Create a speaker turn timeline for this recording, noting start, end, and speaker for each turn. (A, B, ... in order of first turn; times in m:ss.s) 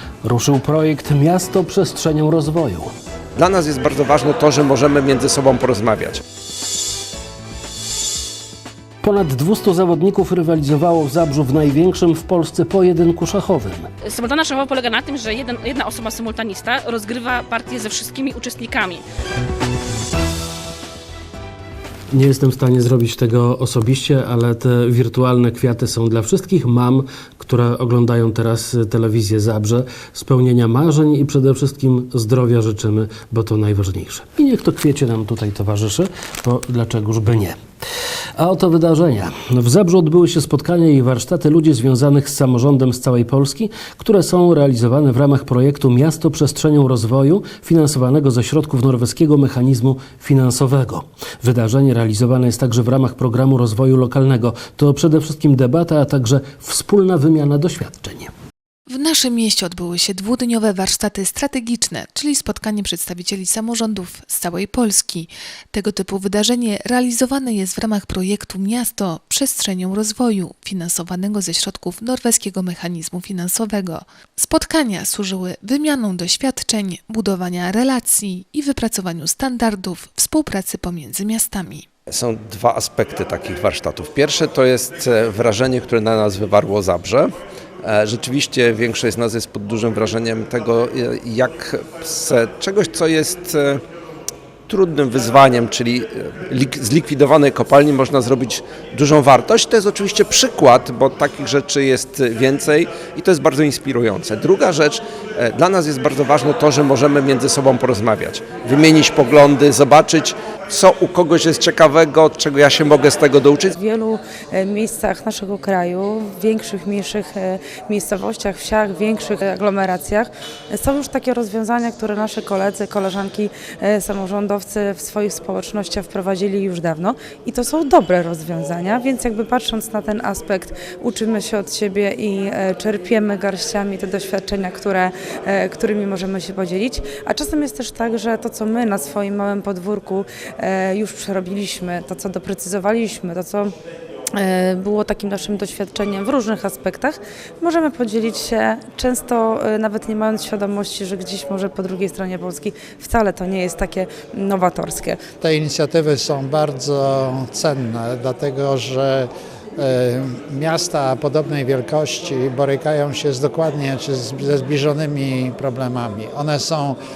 0:00.2-0:02.9 A
0:03.4-0:06.2 B
0:09.0-0:13.9 A
0:14.1-0:19.0 C
0:22.1-0:37.6 A
0:38.4-0:58.3 A
0:59.0-1:05.3 D
1:05.8-1:21.7 D
1:22.1-1:27.3 B
1:27.8-1:33.8 B
1:34.7-1:53.7 B
1:53.7-2:23.7 E
2:24.4-2:35.2 E
2:35.4-2:47.0 F